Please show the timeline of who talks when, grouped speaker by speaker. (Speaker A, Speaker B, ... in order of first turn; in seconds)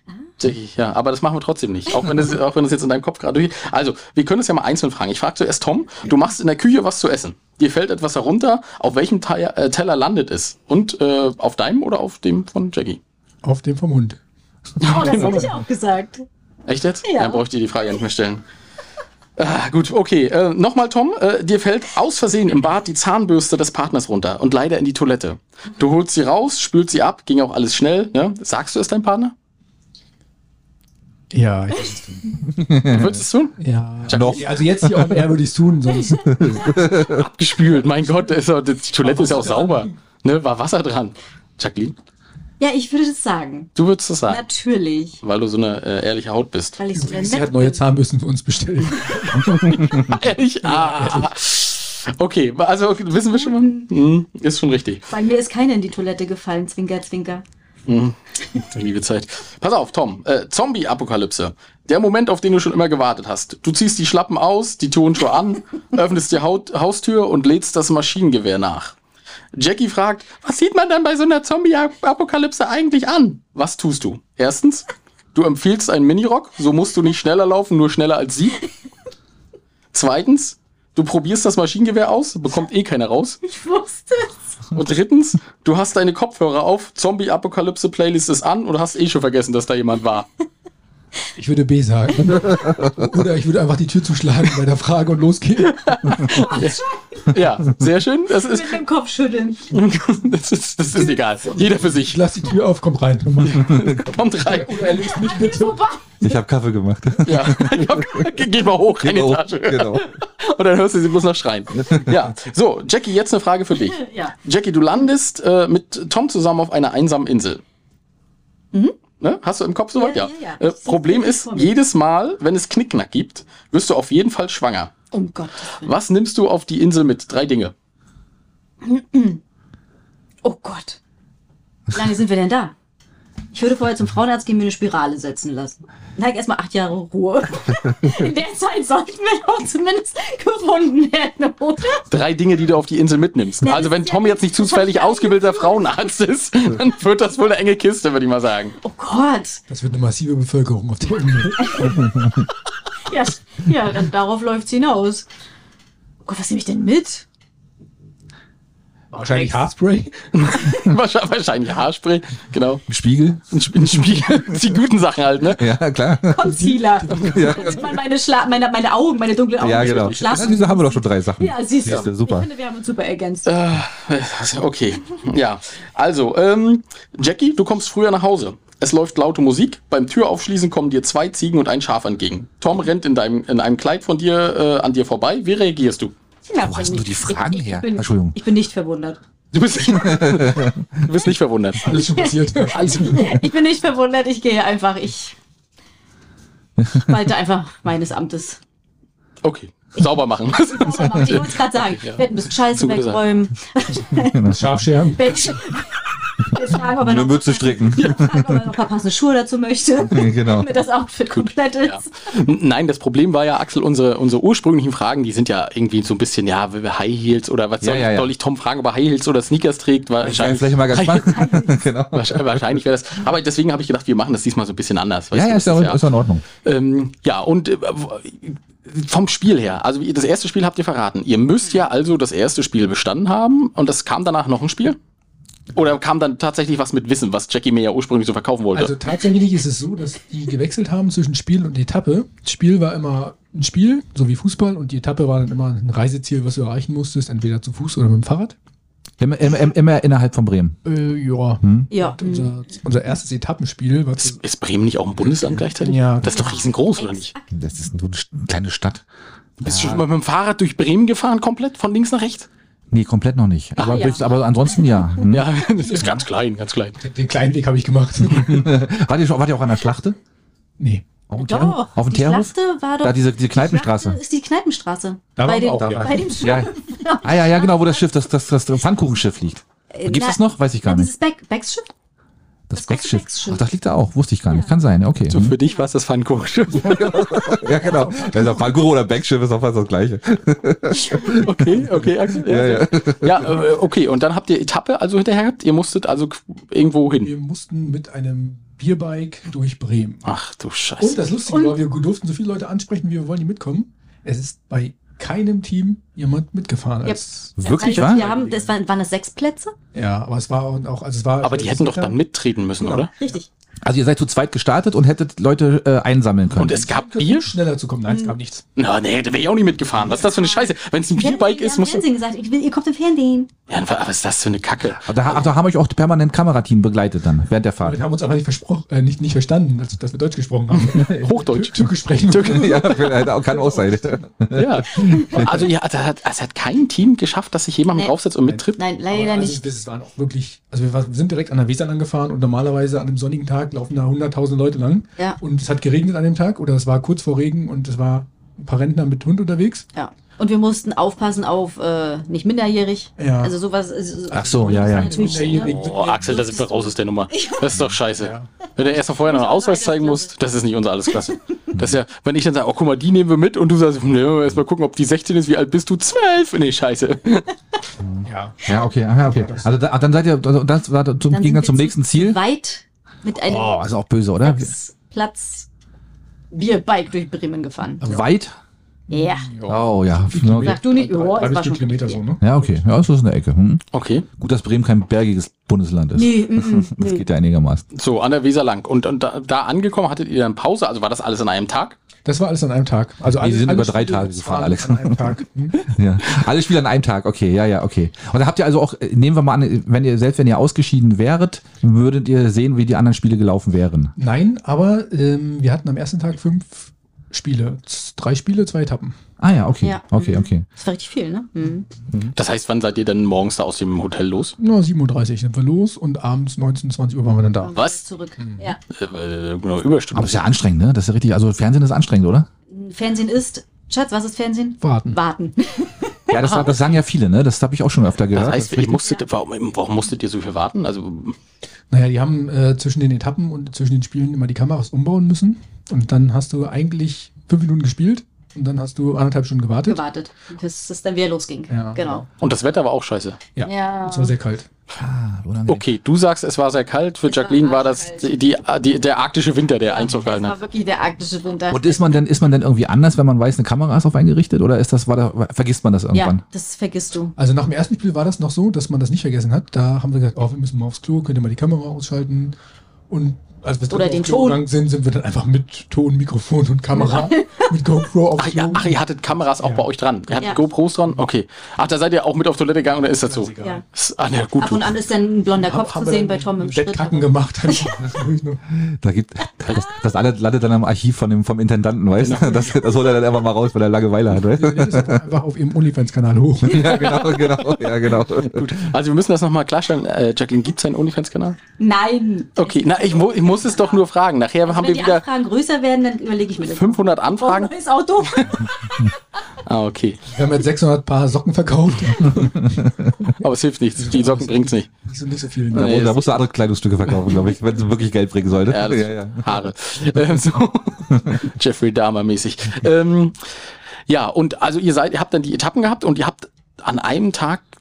Speaker A: 0.4-13.0, 14.8-15.5, 16.7-18.4, 19.4-29.3, 32.9-34.5, 37.0-42.0, 43.8-44.4, 45.2-46.8, 49.7-55.0, 57.9-69.0, 69.5-78.6, 79.9-83.4, 84.7-90.2, 95.6-98.8, 99.7-102.2, 103.4-105.0, 107.2-117.6, 119.2-124.9, 125.8-127.7, 142.1-148.8, 160.3-162.8, 163.5-165.7, 169.8-170.6, 173.4-186.1, 189.5-192.0, 199.4-203.2, 211.3-221.4, 222.1-235.0, 235.7-238.9, 254.2-257.3, 259.6-262.5, 263.8-264.1, 265.3-267.0, 285.3-287.3, 291.1-297.3, 300.2-301.3, 311.4-313.1, 316.6-317.5, 318.8-322.0, 323.7-325.4, 330.7-332.8, 334.5-338.8, 355.5-367.5, 383.9-384.2, 387.9-392.0, 412.3-414.5, 417.7-418.0, 418.9-420.5, 428.3-431.4, 442.4-443.4, 445.7-450.6, 468.4-474.9, 482.2-482.7, 486.7-491.6, 492.6-495.2, 496.6-497.7, 499.6-500.2, 503.4-504.9, 505.7-506.3, 508.7-513.5, 514.1-517.6
Speaker B: 13.4-14.2, 14.8-15.5, 31.3-32.5, 33.6-36.8, 39.0-39.9, 46.9-51.3, 91.3-96.5, 101.8-105.8, 149.7-152.3, 159.1-160.3, 166.4-167.6, 191.8-193.4, 204.4-205.6, 238.7-248.5, 250.8-254.4, 255.7-256.6, 265.8-266.2, 267.0-268.8, 270.8-271.1, 275.4-276.3, 287.5-288.7, 297.2-300.2, 301.0-308.7, 309.9-312.2, 312.8-313.4, 316.7-318.6, 320.0-320.2, 327.8-333.8, 338.4-349.9, 353.2-353.5, 354.4-356.7, 358.1-358.5, 368.2-368.6, 369.2-369.8, 378.0-378.3, 379.1-382.8, 392.2-395.9, 404.2-409.1, 414.6-417.7, 418.4-418.7, 424.8-425.2, 431.9-440.0, 441.7-442.2, 443.6-444.7, 457.4-462.6, 463.1-469.0, 469.6-469.9, 473.1-473.8, 475.6-478.6, 484.4-487.2, 500.3-502.8, 504.0-506.2
Speaker C: 14.8-16.2, 17.0-17.4, 42.6-43.7, 44.3-45.2, 46.8-47.8, 53.3-53.9, 55.1-57.4, 83.4-84.4, 96.3-97.3, 98.3-99.7, 104.9-106.1, 113.9-114.3, 120.0-121.7, 125.1-125.9, 128.8-129.4, 130.4-131.0, 131.9-132.7, 133.5-142.1, 143.6-145.9, 148.8-149.6, 151.6-152.0, 153.0-155.2, 156.2-157.2, 159.2-159.6, 166.3-173.5, 186.5-189.2, 191.9-195.3, 196.9-198.6, 200.5-204.5, 205.1-212.4, 221.1-221.8, 251.9-252.6, 256.2-257.5, 263.8-264.3, 271.4-278.0, 279.9-281.9, 282.7-283.7, 301.5-301.8, 307.0-309.7, 313.2-313.4, 318.1-318.4, 320.2-323.5, 338.8-339.6, 349.9-356.7, 357.3-357.6, 358.9-360.3, 371.3-373.8, 374.4-375.7, 376.5-378.0, 379.1-379.5, 380.6-382.2, 386.1-387.2, 409.8-411.9, 417.6-418.8, 422.7-426.7, 439.8-442.3, 443.6-444.3, 447.2-448.3, 449.9-452.1, 456.1-457.3, 463.9-464.6, 466.9-467.7, 474.6-478.1, 491.8-494.0, 494.6-499.1
Speaker D: 32.5-33.2, 34.1-35.3, 36.2-37.2, 92.5-92.9, 106.2-108.3, 109.0-110.1, 111.7-112.3, 162.9-164.0, 165.6-166.6, 167.1-167.9, 169.6-172.5, 186.6-188.3, 190.0-190.9, 204.2-204.8, 207.0-208.6, 210.1-210.7, 217.8-218.3, 220.2-222.6, 225.3-226.4, 249.2-250.8, 251.6-251.9, 257.5-259.0, 259.6-260.1, 262.9-265.5, 268.3-270.2, 271.3-274.2, 275.8-281.1, 282.7-285.6, 286.7-293.6, 307.6-308.2, 313.8-316.9, 324.9-328.0, 332.3-335.7, 354.3-355.5, 368.0-372.4, 373.4-374.7, 378.0-378.5, 379.7-380.8, 382.4-387.8, 393.4-404.1, 409.4-410.6, 420.1-422.5, 426.3-429.1, 445.0-445.8, 451.7-456.4, 478.7-485.2, 486.6-488.8, 502.4-503.1, 505.7-510.2, 511.1-511.4